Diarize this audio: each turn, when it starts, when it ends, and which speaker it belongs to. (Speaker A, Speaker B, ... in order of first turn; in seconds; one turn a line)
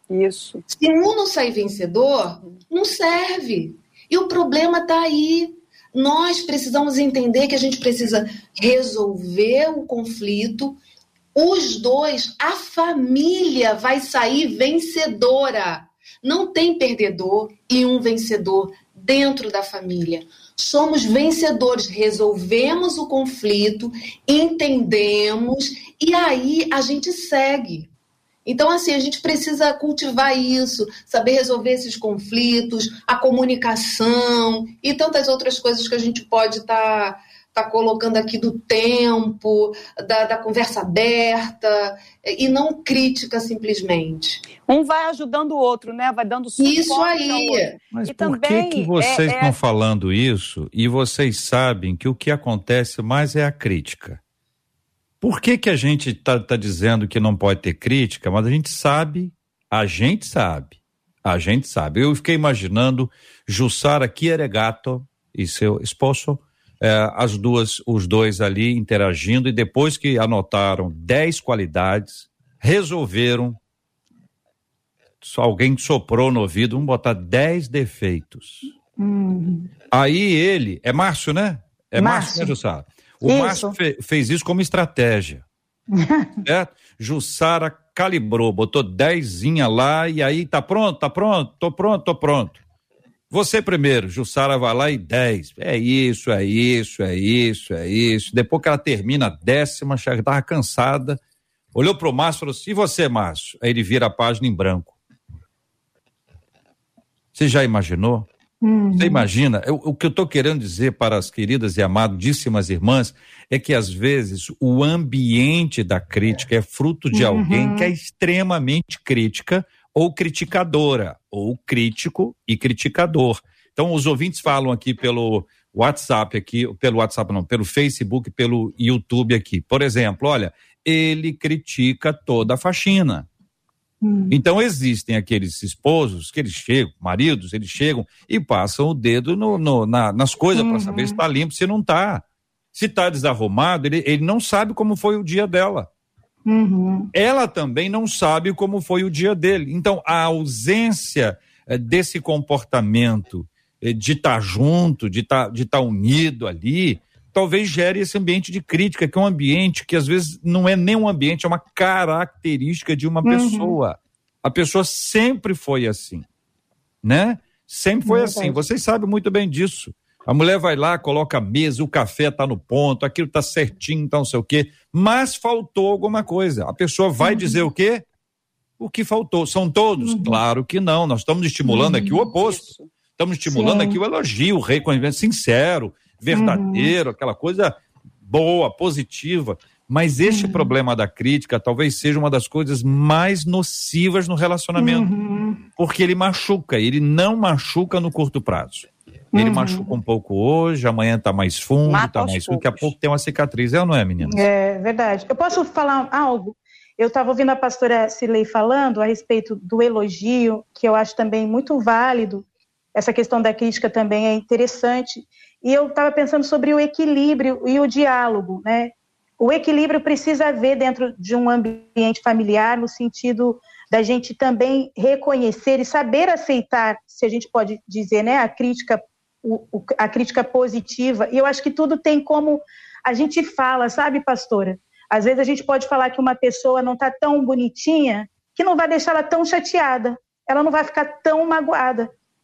Speaker A: 0.1-0.6
Speaker B: 0.7-10.8
Speaker B: 11.3-27.9
Speaker B: 28.4-44.4
Speaker A: 44.7-49.5
Speaker B: 46.6-47.8
Speaker C: 47.9-54.2
Speaker C: 55.2-73.6
Speaker C: 75.2-78.7
Speaker D: 79.0-79.7
Speaker C: 79.9-85.4
Speaker D: 82.0-82.5
Speaker D: 83.2-83.7
Speaker D: 86.0-86.4
Speaker C: 86.4-92.6
Speaker C: 93.3-101.2
Speaker C: 101.7-105.0
Speaker C: 107.3-108.3
Speaker D: 108.6-109.3
Speaker C: 109.0-133.3
Speaker D: 117.1-117.9
Speaker D: 134.0-134.4
Speaker C: 134.3-145.9
Speaker D: 140.5-141.2
Speaker D: 146.5-147.1
Speaker C: 147.1-166.2
Speaker D: 163.2-163.8
Speaker C: 167.0-178.1
Speaker D: 168.1-168.7
Speaker D: 177.2-177.7
Speaker C: 178.8-195.1
Speaker D: 180.0-180.4
Speaker D: 181.7-182.3
Speaker A: 182.3-182.9
Speaker D: 183.5-184.0
Speaker D: 186.3-186.9
Speaker D: 190.2-190.7
Speaker D: 194.8-195.6
Speaker C: 195.8-204.4
Speaker D: 199.3-200.0
Speaker A: 201.9-202.9
Speaker D: 204.2-242.1